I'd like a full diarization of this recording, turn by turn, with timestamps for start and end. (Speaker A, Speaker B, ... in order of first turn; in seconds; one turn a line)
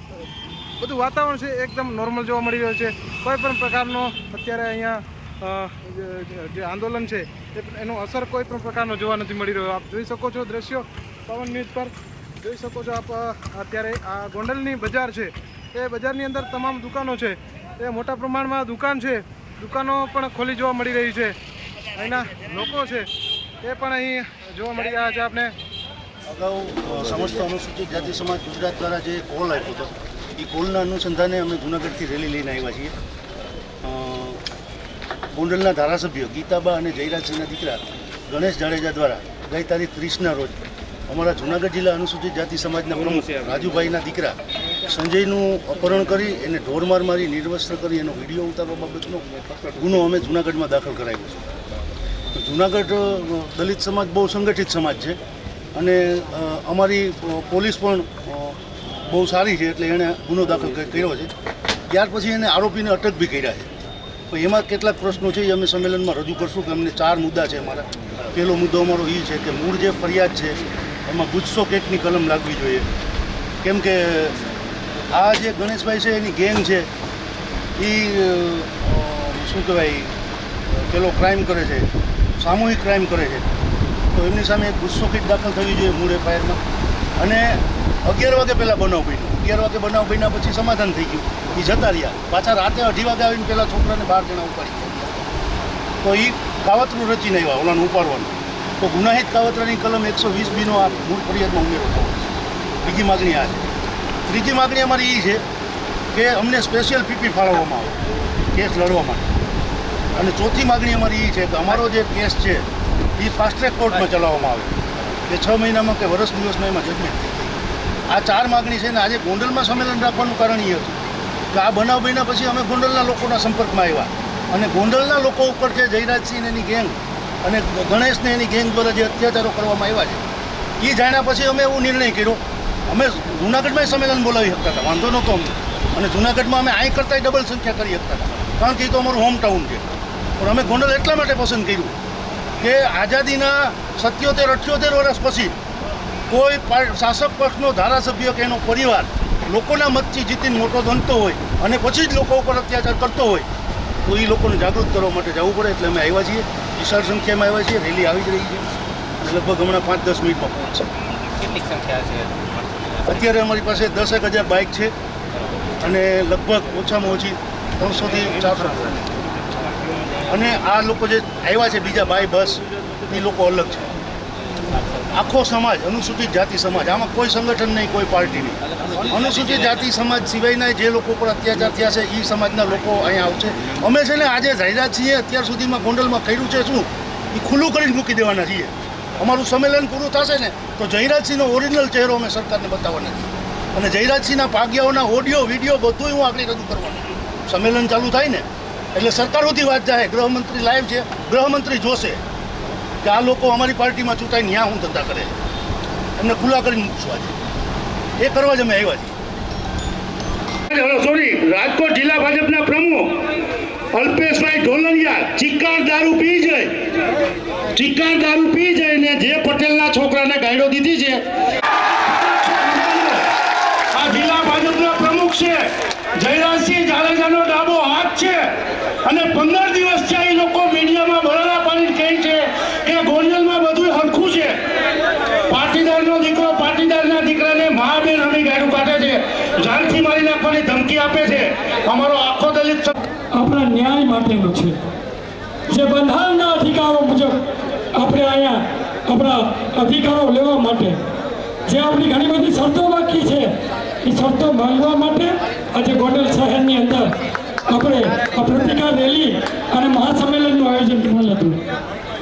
Speaker A: 0.8-21.4
Speaker A: 21.9-23.1
Speaker A: 23.6-25.5
Speaker B: 26.2-32.9
Speaker B: 33.8-34.4
Speaker B: 35.3-51.4
Speaker B: 52.3-55.2
Speaker B: 55.7-61.3
Speaker B: 61.9-63.7
Speaker B: 64.3-72.9
Speaker B: 73.6-74.4
Speaker B: 75.1-76.9
Speaker B: 77.8-80.1
Speaker B: 80.7-83.5
Speaker B: 84.1-86.6
Speaker B: 87.2-95.0
Speaker B: 96.0-103.7
Speaker B: 104.3-105.4
Speaker B: 106.1-108.0
Speaker B: 108.5-109.3
Speaker B: 110.1-114.7
Speaker B: 115.3-117.5
Speaker B: 118.1-121.0
Speaker B: 121.5-130.2
Speaker B: 130.8-139.8
Speaker B: 140.4-141.9
Speaker B: 142.6-145.5
Speaker B: 146.3-153.5
Speaker B: 154.1-158.7
Speaker B: 159.2-160.9
Speaker C: 161.5-162.3
Speaker B: 163.0-164.9
Speaker B: 165.8-169.1
Speaker B: 170.3-173.9
Speaker B: 175.1-202.2
Speaker B: 203.0-205.3
Speaker B: 206.2-207.3
Speaker B: 208.2-209.1
Speaker B: 210.7-212.9
Speaker C: 210.9-213.1
Speaker C: 214.0-216.7
Speaker B: 214.0-216.4
Speaker C: 217.7-221.2
Speaker B: 217.9-220.3
Speaker B: 222.4-223.0
Speaker C: 222.5-222.9
Speaker C: 223.9-225.6
Speaker B: 224.0-224.9
Speaker C: 226.2-228.4
Speaker B: 226.4-226.8
Speaker C: 229.0-234.5
Speaker B: 230.0-232.3
Speaker B: 232.9-234.5
Speaker C: 235.5-242.9
Speaker B: 235.5-239.2
Speaker B: 239.7-242.9
Speaker D: 243.3-244.9
Speaker D: 245.7-247.4
Speaker D: 247.9-251.0
Speaker D: 251.7-253.5
Speaker D: 254.0-257.1
Speaker D: 257.7-261.6